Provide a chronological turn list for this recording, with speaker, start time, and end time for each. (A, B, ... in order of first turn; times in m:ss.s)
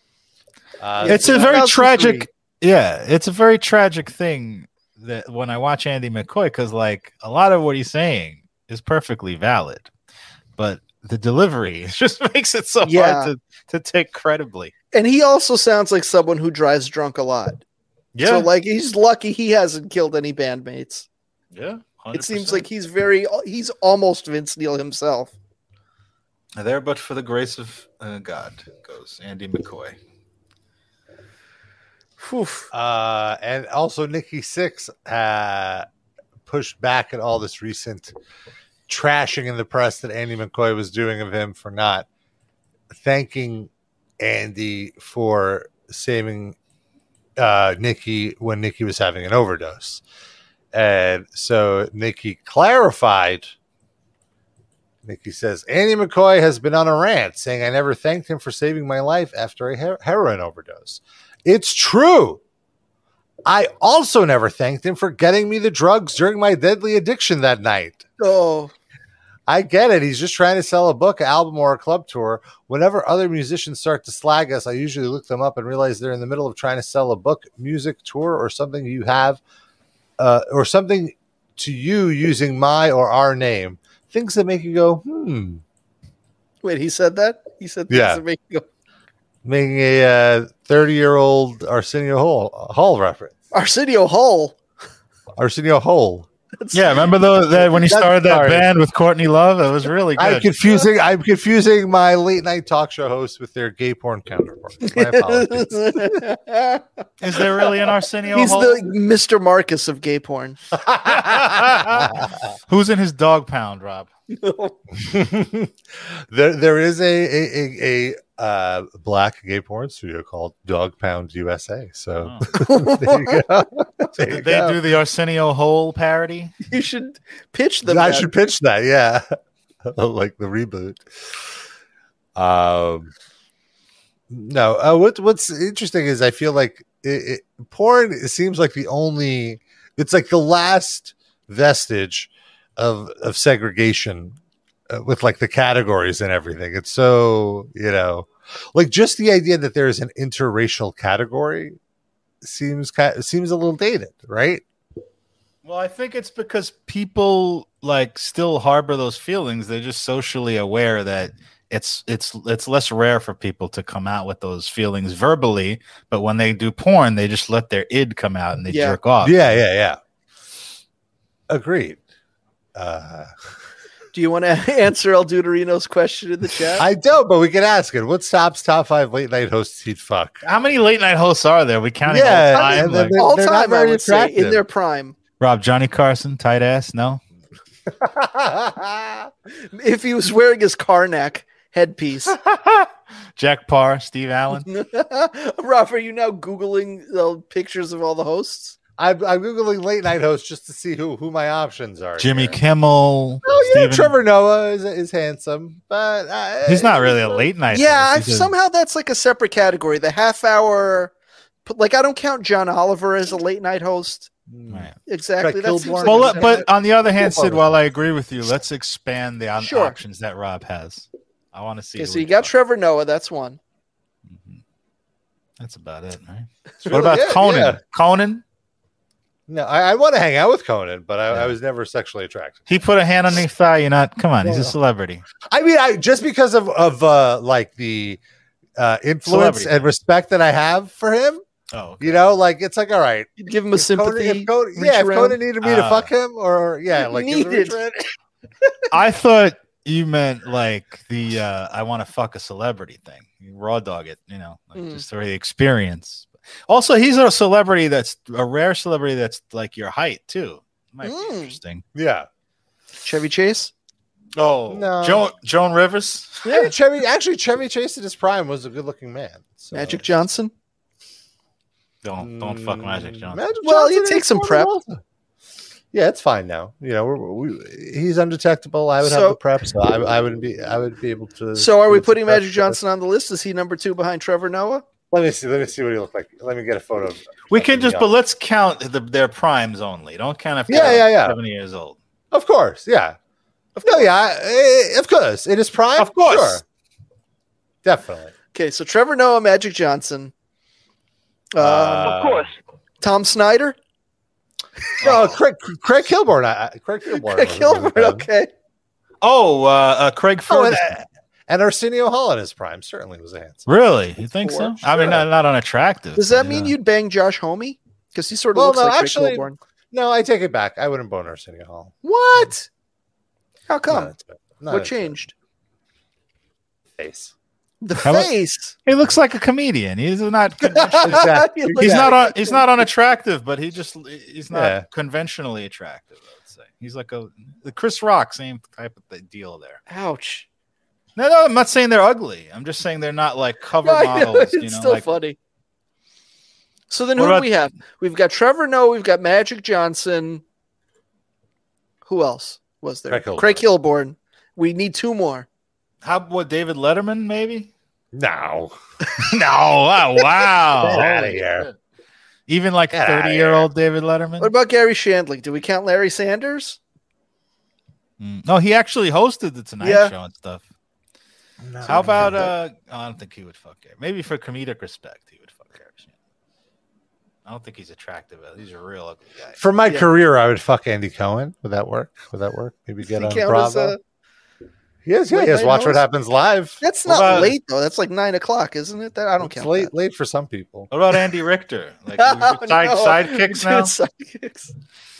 0:00.8-0:02.1 A
0:01.0-0:02.2 B
0:01.0-0:09.9 C
0:10.6-0:14.7 C
0:12.9-0:13.3 B
0:14.9-0:17.6 B
0:18.1-0:18.5 C
0:18.2-0:21.0 B
0:21.5-0:22.7 C
0:22.1-0:25.3 B
0:26.6-0:30.0 C
0:32.2-0:32.7 B
0:32.7-0:35.9 A
0:36.4-0:38.1 A
0:38.9-0:42.1 A
0:42.9-0:46.6 A
0:47.4-0:50.0 A
0:50.7-0:53.5 A
0:55.0-1:02.4 A
1:03.4-1:08.0 A
1:08.2-1:08.7 B
1:09.5-1:19.4 A
1:20.2-1:25.6 A
1:26.6-1:28.7 B
1:27.9-1:28.2 A
1:29.4-1:33.4 A
1:33.5-1:34.6 B
1:35.4-1:36.3 A
1:36.6-1:37.1 B
1:36.7-1:40.5 C
1:37.6-1:38.7 A
1:40.2-1:46.1 A
1:44.8-1:46.8 B
1:47.2-1:48.9 C
1:48.3-1:50.6 B
1:50.9-1:52.3 A
1:51.1-1:54.1 C
1:54.3-1:54.8 B
1:55.0-2:04.8 A
2:02.2-2:02.5 C
2:02.6-2:03.4 B
2:04.2-2:06.5 C
2:06.7-2:08.3 B
2:07.9-2:09.3 A
2:09.8-2:11.4 A
2:12.3-2:13.1 A
2:14.3-2:24.4 A
2:24.9-2:31.8 A
2:32.4-2:34.6 A
2:35.6-2:49.6 C
2:48.7-2:49.0 B
2:49.2-2:50.0 A
2:51.5-2:52.0 A
2:52.7-2:53.3 A
2:54.1-2:56.9 B
2:56.7-3:00.4 A
3:00.4-3:03.2 C
3:02.0-3:04.6 A
3:02.5-3:05.1 B
3:05.4-3:07.2 C
3:07.9-3:09.3 A
3:09.7-3:12.4 B
3:12.4-3:14.7 C
3:14.7-3:18.8 B
3:19.0-3:22.6 A
3:22.2-3:24.1 C
3:23.4-3:27.4 A
3:26.7-3:28.5 C
3:27.7-3:31.1 B
3:31.7-3:34.3 B
3:34.5-3:37.7 A
3:34.7-3:35.0 C
3:35.1-3:36.6 B
3:36.0-3:42.5 C
3:39.6-3:40.0 B
3:42.0-3:43.6 B
3:44.3-3:44.6 C
3:45.6-3:48.4 C
3:46.8-3:47.1 B
3:46.9-3:47.8 A
3:49.5-3:52.6 A
3:52.7-3:55.2 C
3:54.4-3:54.8 A
3:55.4-3:58.2 A
3:58.8-4:01.4 A
3:59.3-3:59.7 C
4:01.7-4:02.3 C
4:02.0-4:08.1 A
4:03.4-4:05.4 B
4:05.6-4:06.1 C
4:07.0-4:07.8 B
4:08.9-4:21.8 C
4:14.8-4:15.0 B
4:21.0-4:21.6 B
4:21.9-4:22.3 A
4:23.0-4:23.7 B
4:24.3-4:26.6 C
4:24.7-4:25.3 A
4:26.5-4:30.0 A
4:29.7-4:30.5 B
4:32.0-4:33.4 C
4:32.2-4:35.0 A
4:33.6-4:34.7 B
4:35.9-4:42.8 A
4:39.0-4:39.4 B
4:41.6-4:44.8 B
4:45.1-4:48.1 A
4:47.5-4:52.0 C
4:50.7-4:51.4 A
4:52.3-4:53.2 A
4:53.8-4:54.1 B
4:53.8-4:56.6 A
4:56.0-4:56.6 C
4:57.8-4:58.3 A
4:58.5-5:00.3 B
5:01.5-5:02.4 B
5:01.6-5:02.5 A
5:03.0-5:03.8 B
5:05.0-5:05.3 B
5:05.0-5:08.3 A
5:07.1-5:08.5 B
5:09.2-5:11.0 C
5:10.5-5:13.7 A
5:13.7-5:16.7 C
5:14.4-5:15.1 B
5:14.9-5:15.2 A
5:16.2-5:19.6 B
5:18.5-5:21.9 A
5:22.0-5:22.7 B
5:23.7-5:24.1 B
5:23.9-5:25.1 A
5:24.7-5:25.3 B
5:27.0-5:27.3 A
5:27.8-5:28.8 B
5:28.0-5:28.3 C
5:28.8-5:39.8 C
5:30.6-5:32.8 B
5:31.0-5:32.2 A
5:34.5-5:34.8 A
5:39.9-5:40.5 B
5:41.2-5:45.1 C
5:43.8-5:45.4 B
5:46.9-5:50.4 B
5:47.2-5:47.5 C
5:52.0-5:55.5 B
5:53.1-5:53.7 A
5:56.0-5:57.7 C
5:58.1-5:58.8 A
5:59.2-6:01.8 C
6:00.8-6:01.7 A
6:02.5-6:04.5 C
6:02.9-6:03.7 A
6:04.4-6:06.8 B
6:08.2-6:10.6 C
6:09.8-6:10.1 B
6:11.6-6:12.5 A
6:11.9-6:16.1 C
6:11.9-6:12.3 B
6:17.5-6:19.6 C
6:19.6-6:24.0 A
6:23.1-6:24.0 B
6:25.0-6:26.8 A
6:25.3-6:26.0 B
6:26.8-6:29.9 B
6:27.0-6:27.5 C
6:29.4-6:30.9 A
6:30.9-6:34.0 C
6:32.2-6:34.7 B